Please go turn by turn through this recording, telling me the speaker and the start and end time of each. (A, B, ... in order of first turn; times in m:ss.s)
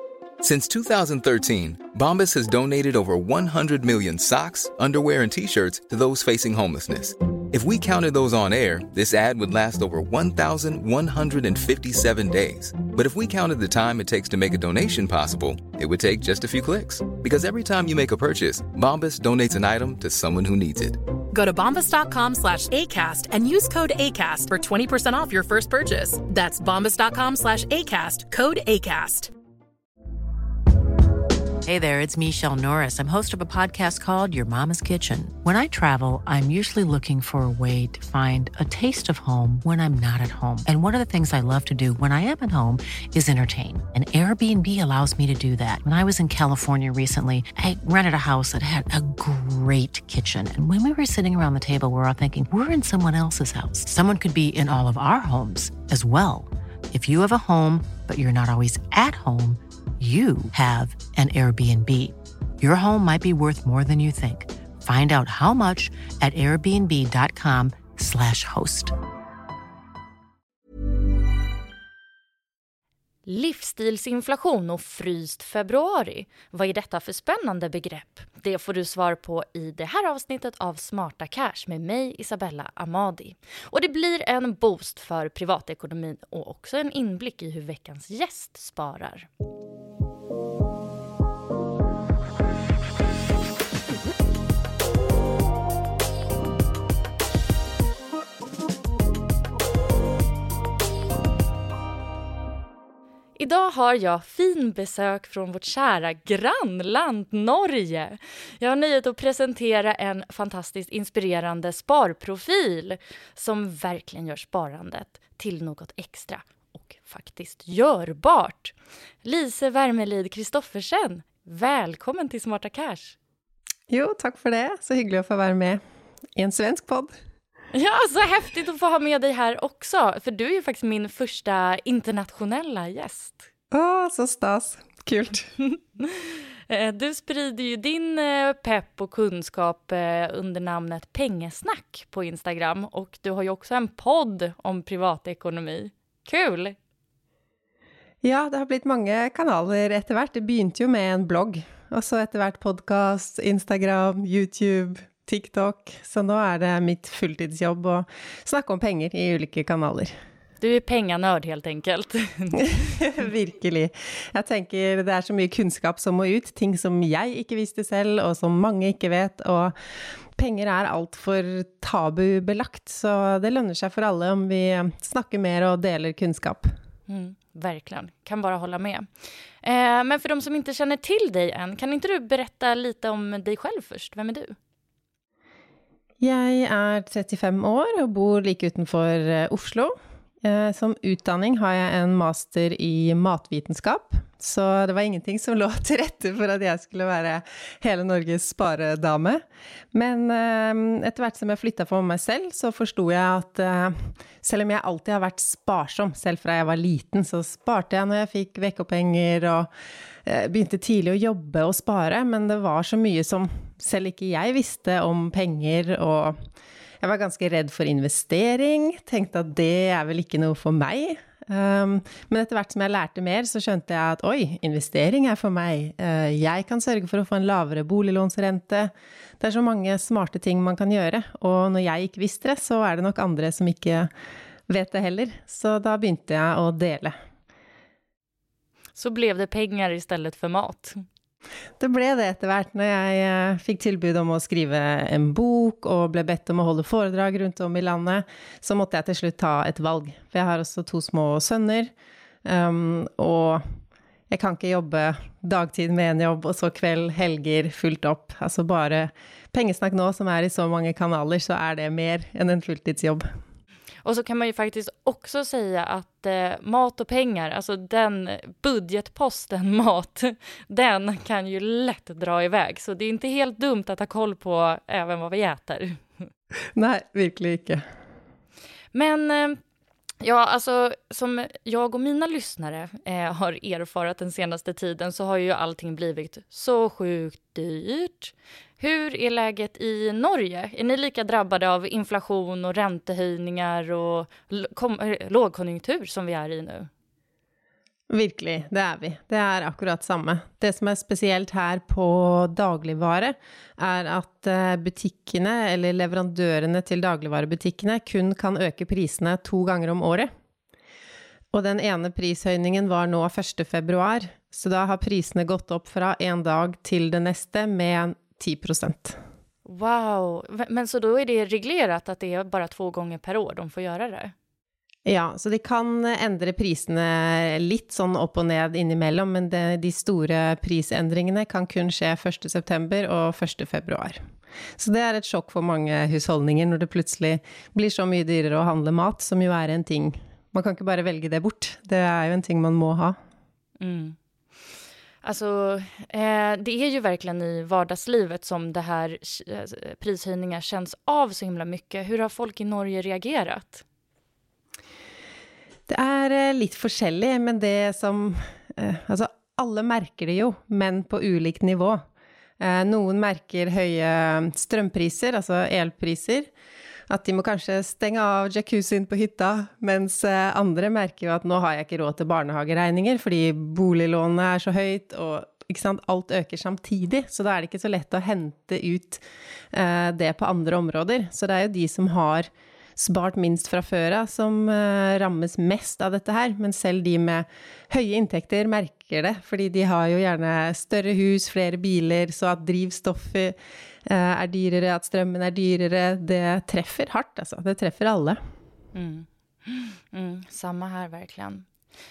0:00.4-0:21.0 A
0:21.3-0:29.3 B
0:31.6-1:09.0 C
1:13.3-1:29.3 D
1:43.4-2:03.2 D
2:03.9-2:05.8 E
2:06.4-2:07.2 E
2:07.7-2:13.5 D
2:13.7-2:15.5 E
2:15.7-2:26.8 D
2:28.2-2:40.2 E
2:40.6-2:42.8 D
2:42.6-2:49.8 E
2:50.4-2:56.8 E
2:57.1-2:59.1 D
2:59.6-3:04.6 D
3:06.2-3:29.7 E
3:30.2-3:36.4 E
3:37.0-3:54.1 E
3:54.7-3:57.2 E
3:59.0-4:01.0 D
4:01.8-4:11.9 E
4:12.4-4:13.8 E
4:14.3-4:23.4 E
4:24.0-4:36.2 D
4:36.8-4:37.8 E
4:38.9-4:39.6 D
4:40.2-4:56.9 D
4:58.1-5:10.3 E
5:11.5-5:19.2 E
5:19.7-5:24.3 D
5:25.1-5:34.2 E
5:34.8-5:43.2 E
5:43.8-5:44.2 D
5:45.2-5:53.8 D
5:55.9-6:02.0 E
6:02.6-6:06.5 E
6:07.1-6:38.4 E
6:38.9-6:41.7 D